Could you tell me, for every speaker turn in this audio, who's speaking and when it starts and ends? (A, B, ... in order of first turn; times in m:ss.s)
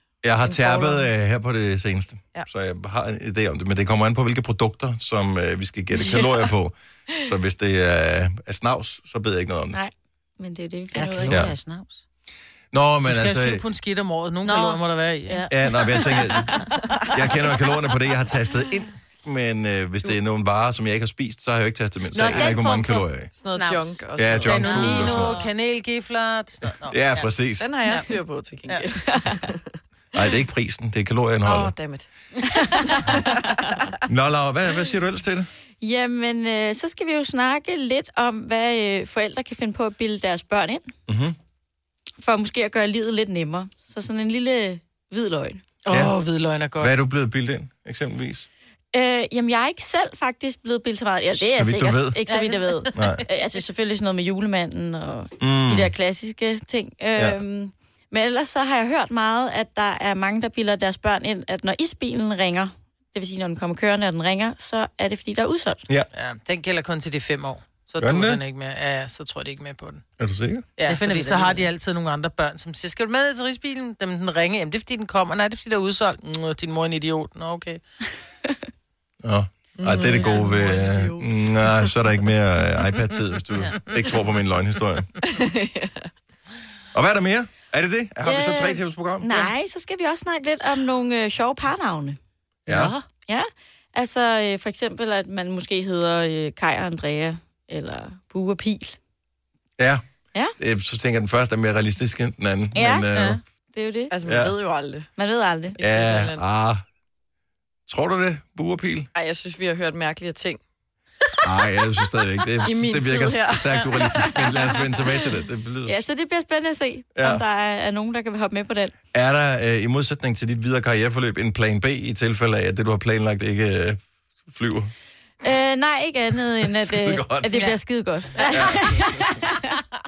0:00.2-0:09.8 A
0:00.4-0:01.1 B
0:09.7-0:11.5 C
0:11.0-0:12.0 D
0:11.3-0:11.5 A
0:12.7-0:13.6 A
0:13.0-0:15.5 E
0:14.4-0:17.2 D
0:15.5-0:23.3 A
0:22.1-0:25.5 D
0:23.3-0:24.7 B
0:24.2-0:25.4 A
0:24.4-0:27.2 E
0:26.9-0:27.7 A
0:27.6-0:29.6 B
0:30.1-0:31.7 A
0:31.4-0:32.1 B
0:32.8-0:33.6 B
0:34.0-0:35.5 A
0:35.8-0:40.9 C
0:41.1-0:41.4 A
0:42.2-0:45.6 C
0:45.8-0:46.9 E
0:46.8-0:48.5 A
0:48.9-1:05.8 C
0:51.4-0:52.2 A
0:52.3-0:53.2 D
0:52.9-0:53.2 A
0:55.4-0:55.9 A
1:06.1-1:10.0 E
1:08.0-1:08.4 A
1:10.2-1:10.7 A
1:10.8-1:17.8 E
1:10.8-1:11.7 D
1:19.2-1:25.1 A
1:19.8-1:21.9 B
1:25.2-1:26.1 B
1:26.9-1:29.3 A
1:28.2-1:32.2 C
1:32.7-1:33.0 A
1:32.7-1:33.0 D
1:33.3-1:39.0 C
1:39.8-1:40.0 A
1:40.6-1:43.4 A
1:42.8-1:43.1 C
1:43.7-1:44.2 C
1:44.1-1:45.1 B
1:44.2-1:44.5 A
1:45.2-1:45.8 C
1:45.8-1:46.8 A
1:45.8-1:46.4 B
1:47.9-1:49.1 A
1:49.2-1:50.6 B
1:51.4-1:56.0 A
1:52.6-1:54.8 B
1:55.9-1:59.0 C
1:57.2-1:57.4 A
1:59.1-2:04.9 A
2:05.4-2:09.8 C
2:06.6-2:07.8 A
2:08.4-2:09.4 A